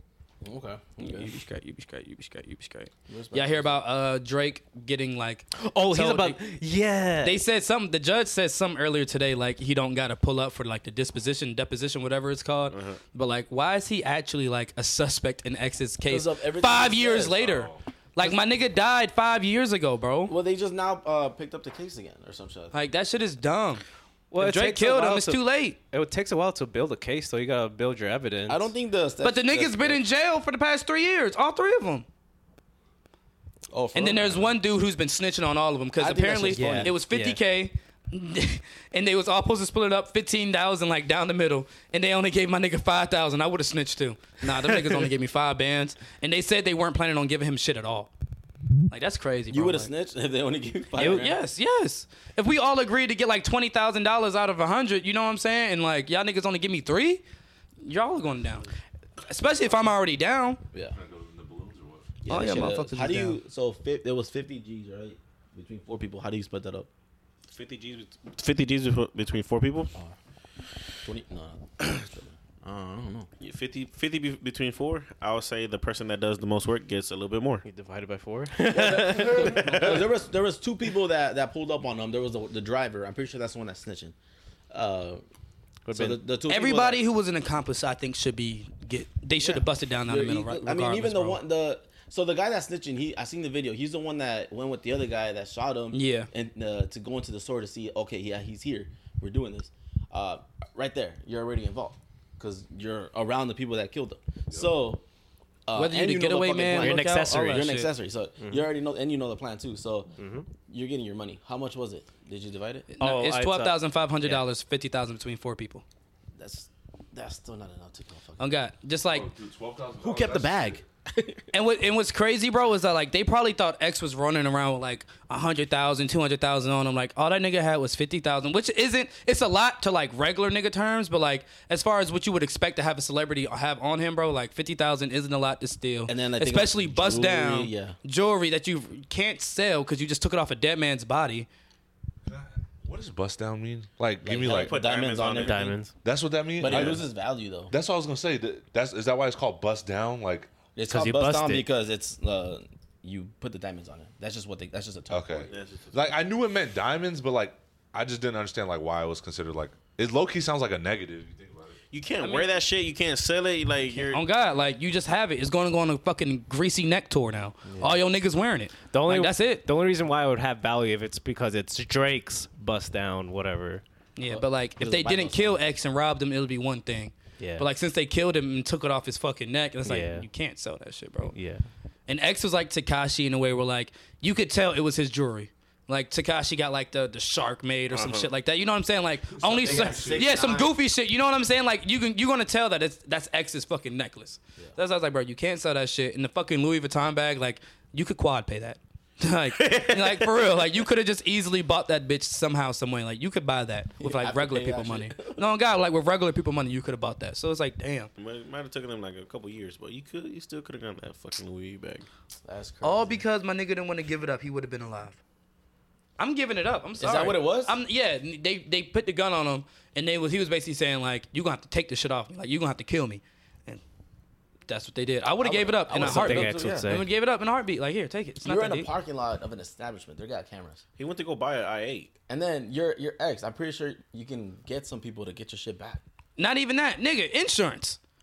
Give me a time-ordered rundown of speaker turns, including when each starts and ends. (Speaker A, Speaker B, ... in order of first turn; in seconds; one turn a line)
Speaker A: 0.4-1.4
Speaker B: 1.0-6.4
Speaker A: 3.1-3.8
Speaker C: 5.6-7.4
Speaker B: 7.2-20.4
Speaker D: 12.7-13.0
Speaker A: 16.1-17.5
Speaker E: 17.4-17.8
Speaker A: 20.3-22.8
Speaker B: 22.7-23.8
Speaker C: 24.3-28.7
Speaker B: 24.4-25.8
Speaker A: 28.5-30.0
Speaker B: 29.2-32.1
Speaker A: 33.7-34.6
Speaker B: 34.0-48.1
Speaker A: 36.0-36.9
Speaker C: 36.5-37.4
Speaker B: 48.9-49.9
Speaker A: 49.5-51.4
Speaker B: 51.0-57.2
Speaker C: 51.0-51.2
Speaker B: 57.8-58.7
Speaker B: 59.2-60.6
Speaker E: 60.9-62.3
Speaker A: 62.2-66.9
Speaker B: 62.3-63.4
Speaker D: 67.5-69.9
Speaker A: 71.0-73.3
Speaker D: 73.4-77.7
Speaker C: 77.7-79.7
Speaker A: 78.6-84.2
Speaker D: 79.4-80.0
Speaker A: 84.7-85.2
Speaker C: 85.9-86.2
Speaker A: 85.9-87.0
Speaker B: 86.5-91.4
Speaker A: 89.4-105.0
Speaker B: 95.9-96.3
Speaker A: 105.7-110.1
Speaker B: 105.8-107.9
Speaker C: 106.8-107.7
Speaker C: 108.4-108.7
Speaker C: 110.2-110.5
Speaker A: 110.7-112.9
Speaker B: 112.9-115.8
Speaker C: 113.0-114.4
Speaker A: 116.4-118.6
Speaker B: 118.4-119.3
Speaker E: 119.1-120.8
Speaker A: 120.0-121.5
Speaker B: 121.5-141.5
Speaker A: 136.1-138.0
Speaker E: 142.2-144.8
Speaker A: 144.2-145.8
Speaker D: 144.4-145.7
Speaker C: 145.4-145.9
Speaker E: 146.0-147.1
Speaker A: 146.6-147.7
Speaker E: 147.7-150.5
Speaker A: 150.8-155.5
Speaker C: 150.9-151.7
Speaker E: 155.1-161.8
Speaker D: 155.5-156.2
Speaker D: 161.9-164.2
Speaker B: 162.2-162.6
Speaker B: 163.9-169.6
Speaker A: 167.7-168.0
Speaker C: 168.9-173.8
Speaker B: 174.2-181.3
Speaker A: 174.3-175.6
Speaker C: 177.4-177.7
Speaker C: 179.8-180.3
Speaker C: 181.3-181.7
Speaker B: 182.1-208.1
Speaker D: 187.9-188.3
Speaker E: 189.3-190.4
Speaker A: 189.6-190.8
Speaker D: 199.5-200.6
Speaker A: 204.0-205.4
Speaker D: 208.2-212.1
Speaker A: 212.4-213.2
Speaker B: 212.8-215.2
Speaker B: 216.2-223.8
Speaker A: 217.0-217.8
Speaker B: 224.7-228.9
Speaker A: 225.4-227.0
Speaker C: 226.0-227.1
Speaker A: 228.4-230.8
Speaker D: 231.0-232.2
Speaker A: 232.3-236.0
Speaker B: 236.4-238.0